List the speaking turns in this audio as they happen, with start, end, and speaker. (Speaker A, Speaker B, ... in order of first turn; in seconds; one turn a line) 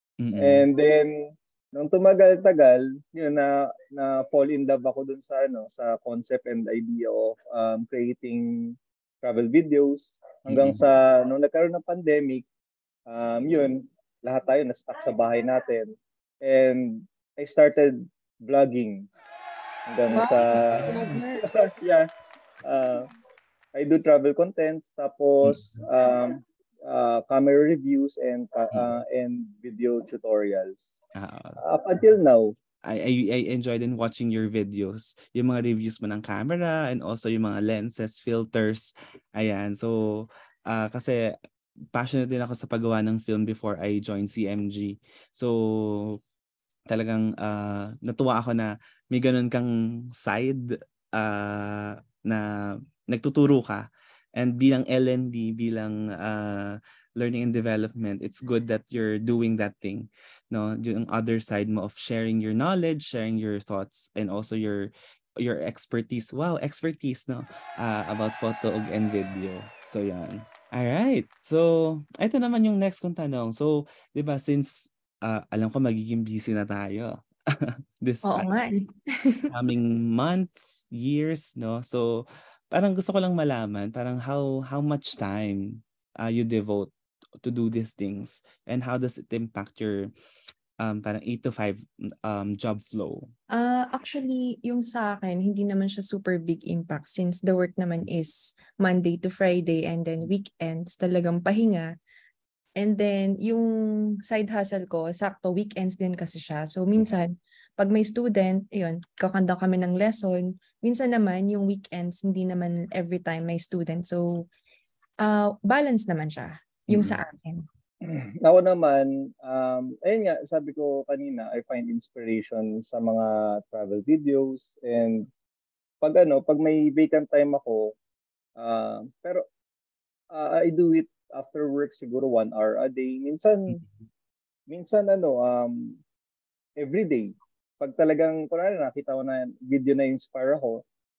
Speaker A: 0.2-0.7
Speaker B: 0.4-12.4
Speaker A: 10.5-10.8
Speaker B: 13.1-19.1
Speaker B: 19.9-22.1
Speaker C: 20.1-21.4
Speaker A: 20.4-21.2
Speaker B: 22.6-23.1
Speaker B: 23.8-30.9
Speaker A: 25.4-25.8
Speaker A: 31.1-31.6
Speaker B: 31.6-32.5
Speaker A: 32.8-41.2
Speaker A: 41.9-46.2
Speaker A: 46.9-52.5
Speaker A: 53.1-78.5
Speaker C: 78.2-79.5
Speaker A: 79.5-86.9
Speaker A: 87.4-90.1
Speaker A: 90.8-93.3
Speaker C: 93.5-101.9
Speaker C: 102.8-103.7
Speaker C: 104.3-114.5
Speaker C: 115.2-117.6
Speaker A: 116.9-117.2
Speaker B: 118.0-125.3
Speaker B: 126.0-127.9
Speaker B: 128.6-129.4
Speaker B: 130.3-133.8
Speaker B: 134.7-136.0
Speaker B: 136.8-140.8